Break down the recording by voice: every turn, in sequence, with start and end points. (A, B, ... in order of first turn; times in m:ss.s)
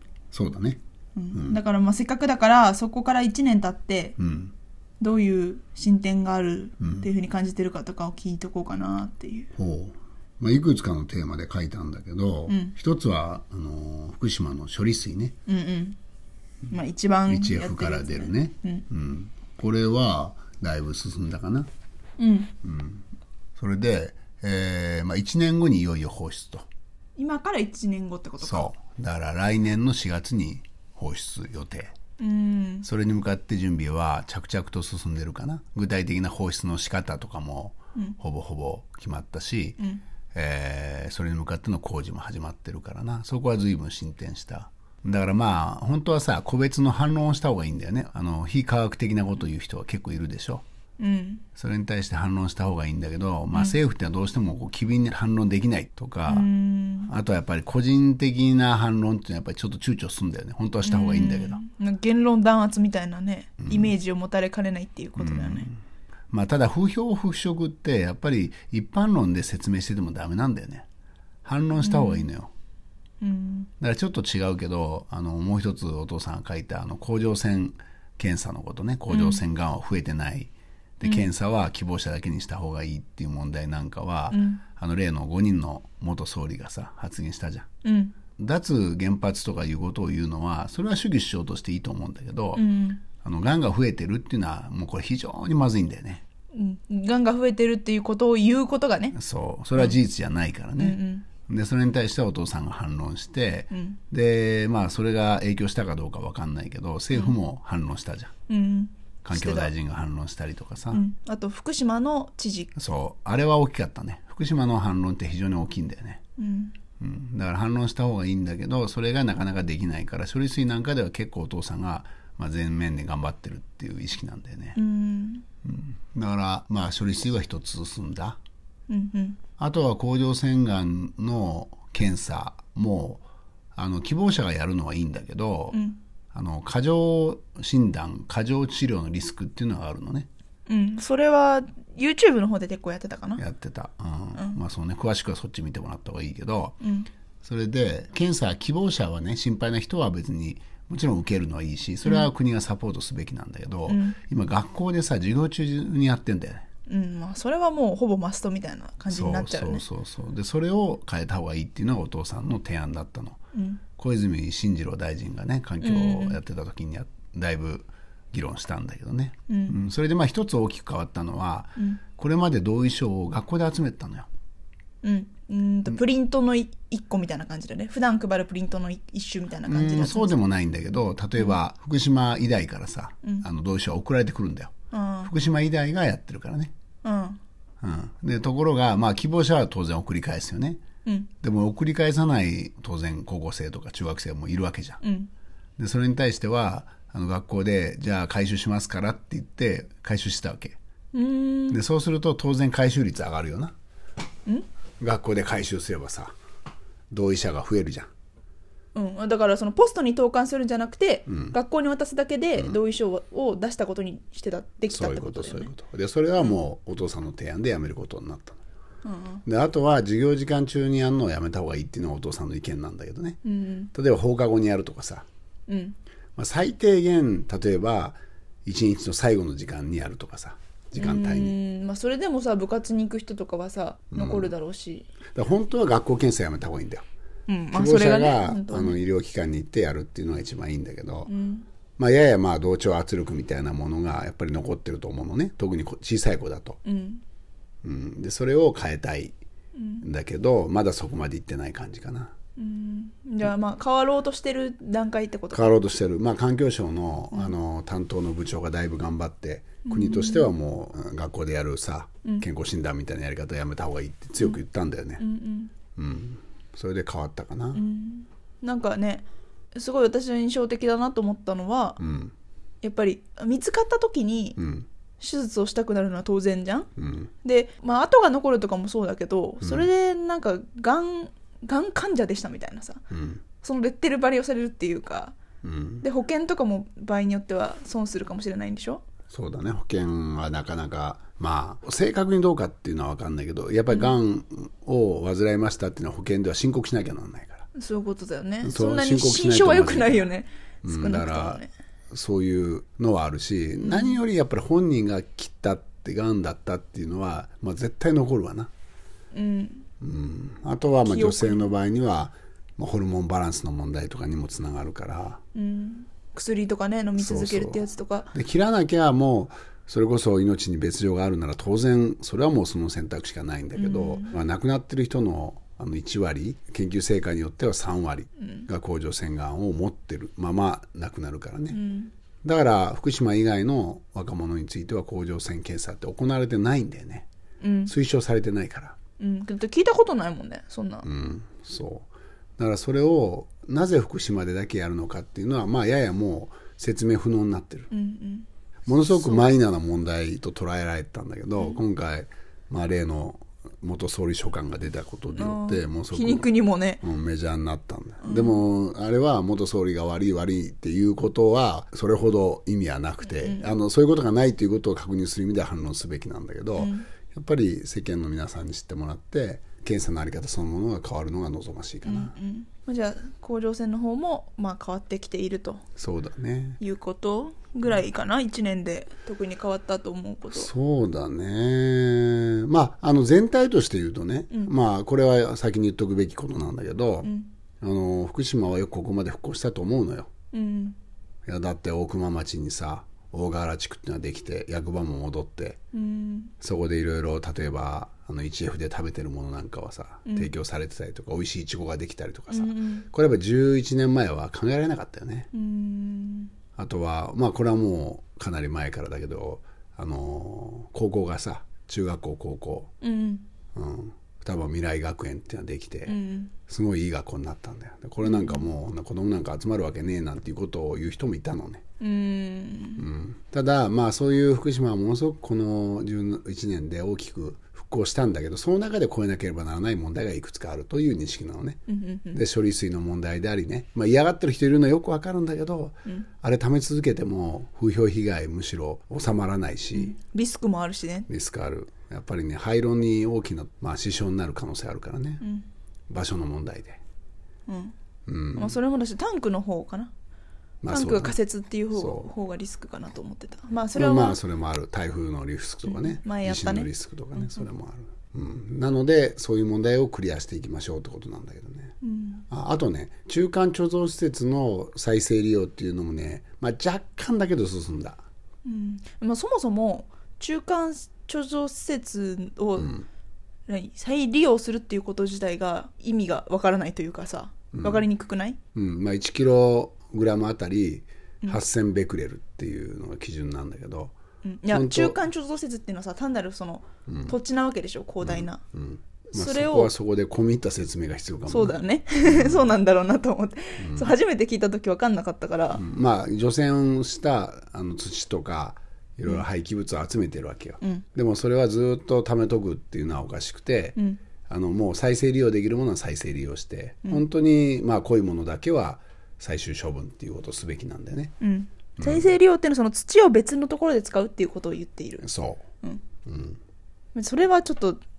0:00.3-0:00.8 A
0:01.2-0:04.2 B
0:01.3-0:01.6 A
0:04.2-0:04.5 A
0:05.0-0:09.5 B
0:06.8-0:07.1 A
0:09.6-0:15.4 A
0:12.5-0:12.7 B
0:15.5-0:16.0 B
0:16.7-0:18.8 B
0:17.3-0:21.7 A
0:22.2-0:22.5 B
0:22.6-0:23.0 A
0:23.6-0:26.7 A
0:27.2-0:28.7 B
0:28.4-0:31.9 A
0:32.2-0:32.9 B
0:32.8-0:39.8 A
0:40.3-0:50.6 A
0:51.0-0:51.4 B
0:51.6-0:56.5 A
0:56.3-0:57.1 B
0:57.0-1:01.6 A
1:00.8-1:05.7 B
1:03.6-1:03.9 A
1:05.2-1:05.8 A
1:06.3-1:10.8 A
1:11.4-1:12.5 A
1:11.8-1:12.2 B
1:13.2-1:13.7 B
1:13.8-1:27.7 A
1:19.1-1:19.4 B
1:24.3-1:24.6 B
1:27.8-1:28.1 B
1:28.4-1:32.7 A
1:32.6-1:33.0 B
1:33.2-1:36.2 A
1:36.5-1:39.2 B
1:39.1-1:48.3 A
1:40.8-1:41.2 B
1:43.7-1:44.0 B
1:48.5-1:49.7 B
1:49.2-1:51.0 A
1:50.9-1:52.7 B
1:52.7-1:56.2 A
1:56.4-1:56.7 B
1:57.0-2:04.8 A
2:04.7-2:05.4 B
2:05.6-2:08.4 A
2:08.9-2:09.4 B
2:09.6-2:13.2 A
2:13.8-2:15.8 A
2:15.7-2:16.0 B
2:16.3-2:20.3 A
2:20.7-2:23.4 B
2:23.4-2:26.8 A
2:26.8-2:27.1 B
2:27.4-2:36.6 A
2:33.9-2:34.2 B
2:36.9-2:39.8 B
2:39.1-2:43.4 A
2:43.5-2:43.8 B
2:44.0-2:54.3 A
2:45.8-2:46.4 B
2:49.5-2:49.7 B
2:55.0-3:00.4 B
2:59.6-3:04.7 A
3:04.9-3:05.3 B
3:05.2-3:06.7 A
3:07.0-3:07.4 B
3:07.8-3:10.8 A
3:11.4-3:15.0 A
3:15.0-3:15.3 B
3:15.8-3:20.8 A
3:21.1-3:21.8 B
3:21.7-3:23.7 A
3:25.0-3:26.3 A
3:27.1-3:28.1 A
3:28.9-3:35.7 B
3:31.3-3:31.6 A
3:34.9-3:38.6 A
3:39.0-3:39.4 B
3:39.4-3:43.4 A
3:43.4-3:43.9 B
3:43.9-3:45.3 A
3:45.7-3:46.0 B
3:46.4-3:51.6 A
3:51.0-3:55.1 B
3:54.1-3:54.5 A
3:55.3-3:57.0 A
3:57.5-3:59.0 B
3:57.7-4:01.3 A
4:01.3-4:01.6 B
4:02.0-4:06.8 A
4:06.8-4:07.2 B
4:07.8-4:09.4 A
4:09.7-4:10.0 B
4:10.0-4:12.3 A
4:12.6-4:15.7 B
4:15.5-4:25.2 A
4:19.8-4:20.5 B
4:25.2-4:25.7 B
4:26.0-4:27.8 A
4:27.7-4:32.0 B
4:32.0-4:32.3 A
4:32.8-4:34.6 B
4:34.6-4:34.9 A
4:35.2-4:36.9 B
4:37.0-4:37.3 A
4:37.4-4:43.0 B
4:39.6-4:39.9 A
4:43.1-4:43.4 A
4:43.6-4:45.4 B
4:45.6-4:46.0 A
4:46.0-4:49.0 B
4:49.3-4:57.7 A
4:57.7-5:01.7 B
4:58.6-5:00.3 A
5:00.8-5:08.7 A
5:03.8-5:04.2 B
5:09.3-5:09.8 B
5:10.0-5:15.4 A
5:11.0-5:11.7 B
5:15.5-5:18.3 B
5:17.2-5:31.8 A
5:23.8-5:24.3 B
5:28.4-5:28.7 B
5:31.7-5:32.1 B
5:32.4-5:37.3 A
5:37.6-5:37.9 B
5:37.8-5:39.0 A
5:39.2-5:41.1 B
5:41.0-5:47.9 A
5:47.9-5:48.5 B
5:48.9-5:56.5 A
5:49.1-5:49.5 B
5:55.3-5:57.0 B
5:57.0-6:12.3 A
5:58.2-5:58.6 B
6:03.4-6:03.7 B
6:06.8-6:07.1 B
6:12.0-6:15.8 B
6:16.0-6:16.8 A
6:16.8-6:20.7 B
6:20.5-6:30.3 A
6:27.2-6:27.5 B
6:30.5-6:31.0 B
6:31.4-6:35.8 A
6:35.9-6:36.5 B
6:36.6-6:45.5 A
6:42.5-6:43.1 B
6:45.5-6:46.5 B
6:46.8-6:52.9 A
6:53.0-6:53.4 B
6:53.7-7:01.8 A
6:56.1-6:56.5 B
6:58.2-6:58.7 B
7:02.0-7:03.0 B
7:03.0-7:11.8 A
7:11.9-7:12.4 B
7:12.3-7:20.2 A
7:19.9-7:21.3 B
7:21.3-7:25.4 A
7:26.1-7:27.0 A
7:27.7-7:27.9 B
7:28.3-7:28.8 A
7:28.6-7:30.1 B
7:30.8-7:31.4 A
7:30.9-7:34.4 B
7:31.9-7:32.3 A
7:33.9-7:42.0 A
7:35.8-7:37.6 B
7:42.0-7:42.4 B
7:42.5-7:48.2 A
7:48.6-7:53.0 B
7:52.8-7:53.0 A
7:53.7-7:58.6 B
7:57.7-7:58.0 A
7:58.7-8:04.1 A
8:04.4-8:08.6 B
8:04.7-8:05.2 A
8:07.1-8:07.3 A
8:08.2-8:12.7 A
8:09.3-8:09.9 B
8:11.5-8:15.8 B
8:13.8-8:14.1 A
8:15.8-8:24.0 A
8:24.5-8:31.3 A
8:31.4-8:35.2 B
8:32.0-8:32.3 A
8:35.2-8:35.6 A
8:36.2-8:36.6 A
8:37.1-8:38.0 B